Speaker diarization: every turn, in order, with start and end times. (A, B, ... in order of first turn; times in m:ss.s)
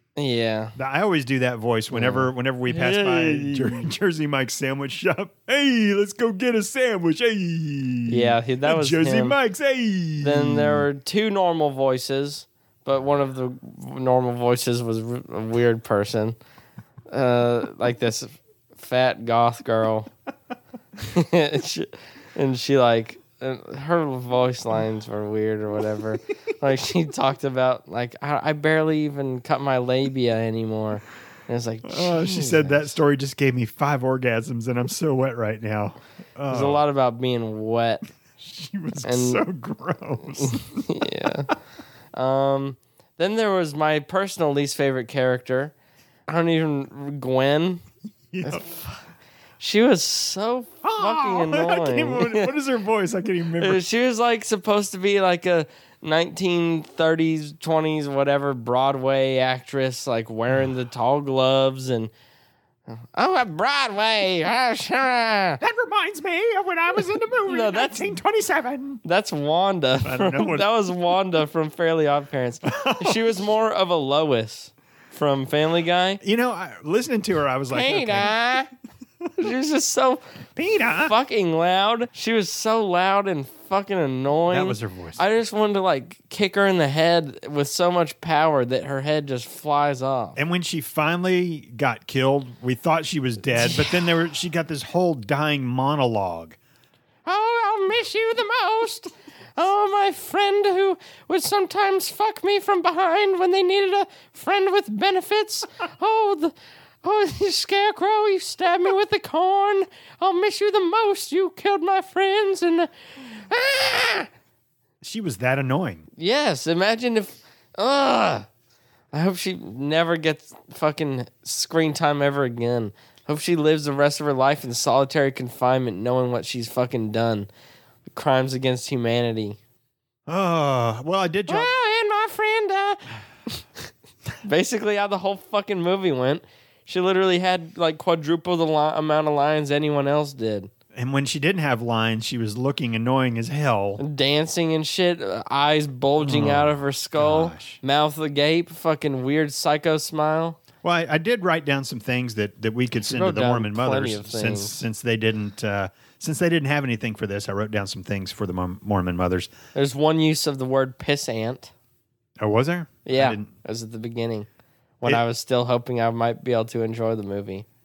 0:00.2-0:00.8 A
0:00.8-0:10.9 B
0:01.9-0:03.9 A
0:08.1-0:09.4 A
0:10.2-0:16.4 A
0:17.1-0:20.1 A
0:21.0-0:32.9 A
0:31.8-0:36.8 B
0:36.5-0:38.0 A
0:38.4-0:41.0 B
0:39.0-0:39.4 A
0:40.4-0:41.5 A
0:42.1-0:45.7 A
0:46.3-0:47.8 A
0:48.3-0:48.6 B
0:48.4-0:49.0 A
0:49.6-0:52.5 A
0:50.8-0:53.8 B
0:53.6-1:02.1 A
1:02.9-1:05.6 A
1:05.6-1:09.0 B
1:07.4-1:08.1 A
1:09.0-1:16.2 A
1:10.0-1:10.7 B
1:12.7-1:13.3 B
1:16.2-1:18.3 B
1:17.7-1:18.7 A
1:19.4-1:20.2 A
1:20.6-1:21.1 B
1:20.9-1:30.4 A
1:24.5-1:25.2 B
1:30.4-1:36.6 B
1:33.6-1:33.9 A
1:37.2-1:54.3 A
1:55.0-1:56.0 B
1:56.2-1:58.5 A
1:59.1-2:07.5 A
2:08.1-2:09.6 A
2:10.3-2:11.7 B
2:11.5-2:13.6 A
2:14.4-2:20.7 A
2:20.9-2:24.0 B
2:24.0-2:30.6 A
2:26.2-2:27.8 B
2:30.8-2:39.5 B
2:33.0-2:34.8 A
2:39.7-2:41.7 A
2:42.4-2:43.5 B
2:43.0-2:44.5 A
2:45.0-2:47.7 A